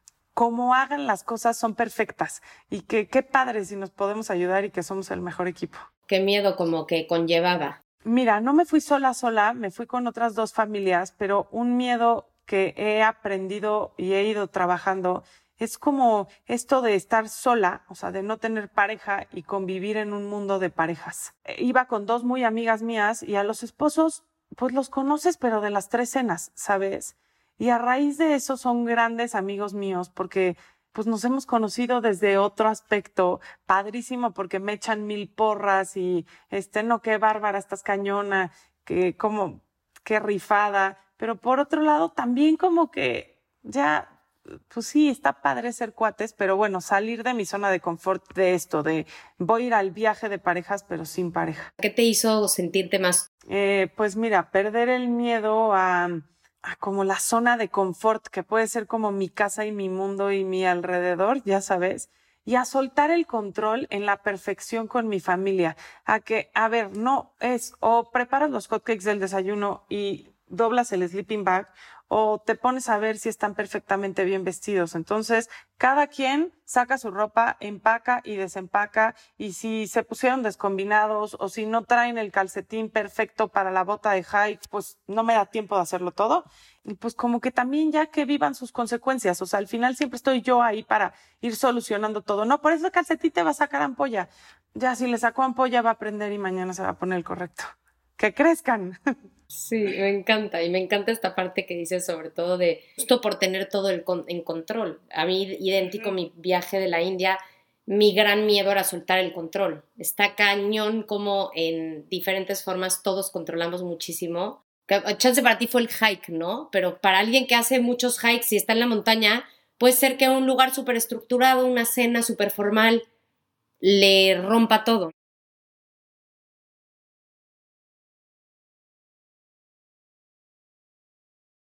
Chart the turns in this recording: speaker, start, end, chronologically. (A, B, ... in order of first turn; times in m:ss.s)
0:00.3-0:05.8 A
0:06.1-0:07.8 B
0:08.0-0:44.2 A
0:44.7-0:51.7 A
0:51.8-0:53.3 B
0:53.4-1:39.0 A
1:39.5-2:03.0 B
2:03.8-2:05.1 B